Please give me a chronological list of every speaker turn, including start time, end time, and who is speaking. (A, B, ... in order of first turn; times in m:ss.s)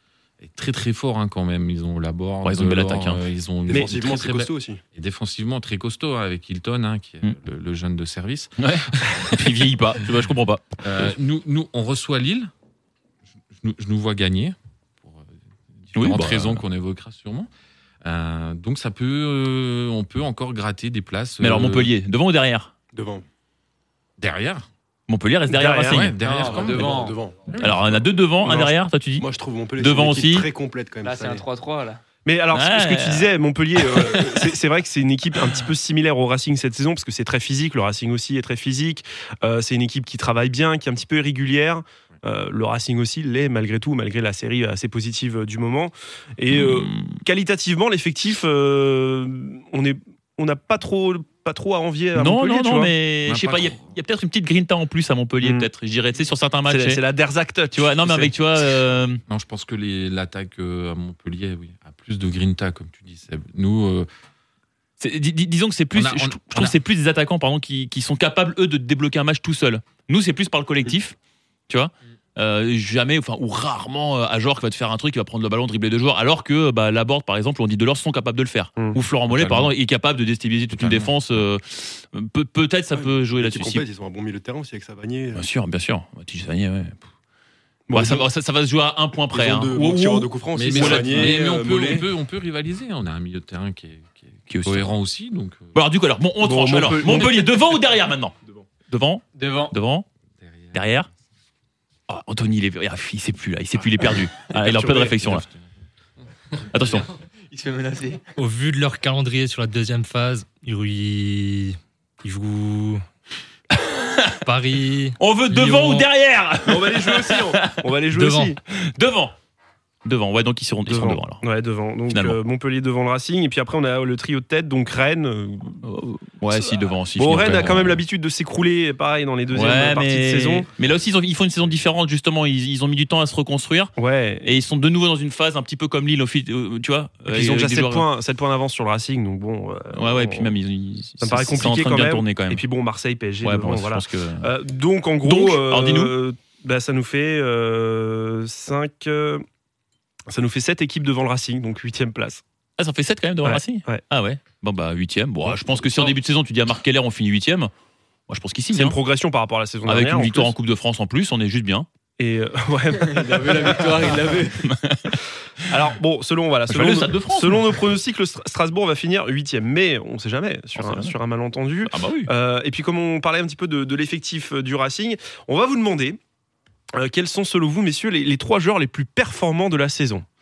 0:00.4-0:09.4 A
0:02.4-0:03.2 B
0:03.7-0:04.8 C
0:03.7-0:04.0 D
0:08.6-0:11.1 B
0:10.8-0:12.5 A
0:13.5-0:17.5 A
0:16.0-0:16.6 B
0:18.0-0:21.9 A
0:21.4-0:22.7 B
0:22.9-0:23.3 C
0:24.2-0:24.7 A
0:25.1-0:26.2 B
0:25.5-0:26.1 D
0:25.9-0:27.1 A
0:26.2-0:27.2 E
0:26.3-0:28.0 C
0:27.6-0:29.3 B
0:28.4-0:28.7 D
0:29.2-0:31.4 C
0:29.8-0:30.5 B
0:31.0-0:32.0 E
0:32.2-0:52.9 D
0:32.5-0:34.4 B
0:46.5-0:47.2 B
0:52.2-0:57.0 B
0:53.3-0:53.8 A
0:55.4-0:55.7 D
0:56.7-0:58.7 D
0:57.7-0:59.2 B
0:59.3-1:04.1 A
1:05.0-1:11.2 B
1:05.9-1:06.8 A
1:11.7-1:23.8 B
1:19.3-1:19.7 A
1:20.7-1:21.1 A
1:22.9-1:25.5 C
1:25.4-1:27.0 B
1:27.9-1:28.2 D
1:27.9-1:31.4 B
1:29.3-1:32.0 C
1:30.5-1:35.8 A
1:31.2-1:31.5 D
1:34.5-1:34.9 B
1:35.7-1:38.4 B
1:36.4-1:37.5 D
1:38.9-1:40.1 B
1:39.4-1:39.7 E
1:40.4-1:40.8 A
1:40.7-1:41.1 B
1:42.1-1:45.5 B
1:44.5-1:45.4 D
1:46.7-1:47.1 B
1:47.4-1:48.2 E
1:48.4-1:53.0 F
1:53.8-1:54.4 B
1:54.4-1:56.1 F
1:55.2-1:57.8 B
1:56.7-1:58.6 D
1:58.1-1:58.6 F
1:58.7-1:59.3 B
2:00.0-2:01.4 B
2:00.9-2:05.8 D
2:02.1-2:02.4 B
2:05.8-2:08.0 B
2:06.5-2:10.7 D
2:09.5-2:18.1 B
2:14.0-2:14.5 D
2:17.3-2:20.5 D
2:19.9-2:22.6 B
2:21.2-2:29.4 D
2:23.4-2:24.5 B
2:25.2-2:26.1 B
2:30.3-2:32.4 D
2:32.8-2:37.7 B
2:33.4-2:34.0 D
2:35.4-2:36.1 D
2:38.3-2:39.0 B
2:38.7-2:40.5 D
2:39.8-2:41.9 B
2:42.2-2:44.3 D
2:43.1-2:44.7 E
2:44.6-2:45.2 B
2:45.7-2:56.2 D
2:46.7-2:47.8 B
2:50.8-2:51.2 B
2:51.8-2:52.3 B
2:56.9-3:00.3 D